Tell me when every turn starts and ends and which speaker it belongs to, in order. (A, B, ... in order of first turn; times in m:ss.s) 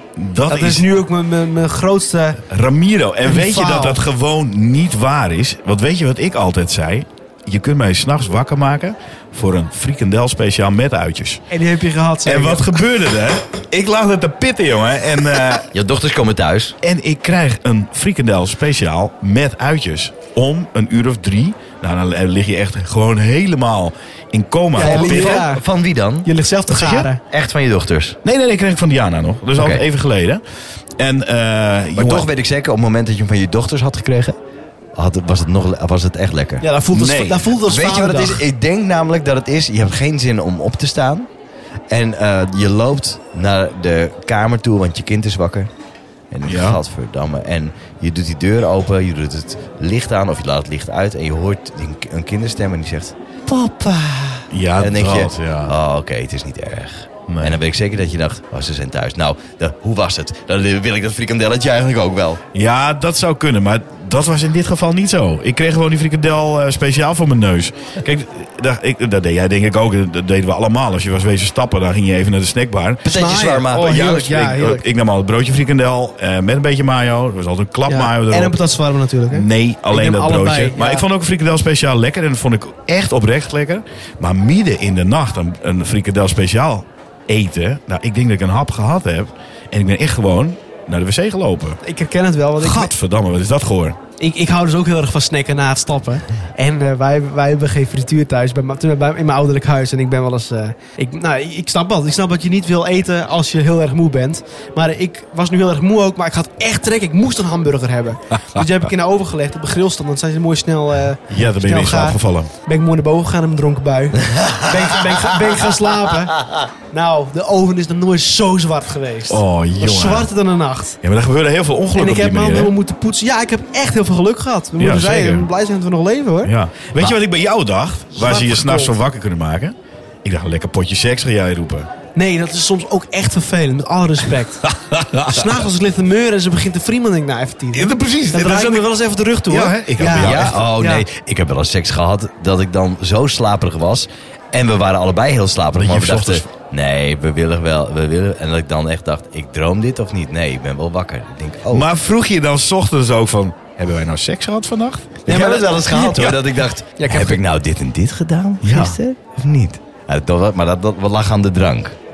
0:00.2-0:00.8 A
0:00.5-0:02.4 B
0:02.4-0:11.4 A
0:03.2-0:04.0 B
0:11.5-0:12.7 B
0:12.2-0:15.7 A
0:15.7-0:16.7 C
0:16.8-0:25.4 A
0:24.7-0:25.6 B
0:24.8-0:26.3 C
0:26.2-0:27.2 B
0:26.7-0:27.1 A
0:27.2-0:28.2 C
0:28.2-0:30.4 A
0:29.6-0:29.8 C
0:31.0-0:32.3 A
0:32.0-0:34.4 C
0:34.9-0:36.7 C
0:36.6-0:38.4 B
0:36.9-0:37.5 A
0:37.6-0:41.3 C
0:41.9-0:45.7 C
0:46.3-1:02.4 C
0:46.4-0:46.8 A
0:54.5-0:55.7 A
0:57.3-0:57.6 A
1:02.5-1:13.0 A
1:13.0-1:14.0 C
1:13.1-1:14.8 B
1:13.8-1:18.6 A
1:17.9-1:21.0 B
1:19.3-1:31.8 A
1:31.8-1:32.9 B
1:32.6-1:34.0 A
1:34.2-2:01.0 B
1:51.3-1:52.5 A
1:59.3-2:00.3 A
2:01.0-2:02.7 A
2:01.9-2:06.5 B
2:04.8-2:05.5 A
2:06.4-2:11.9 A
2:08.1-2:09.0 B
2:12.1-2:14.7 B
2:14.6-2:15.6 A
2:15.2-2:21.0 B
2:17.7-2:18.9 A
2:19.5-2:20.6 A
2:20.1-2:31.9 C
2:25.8-2:26.5 A
2:31.7-2:35.2 A
2:35.2-2:36.4 B
2:35.2-2:42.0 C
2:37.0-2:37.4 B
2:38.6-2:39.0 A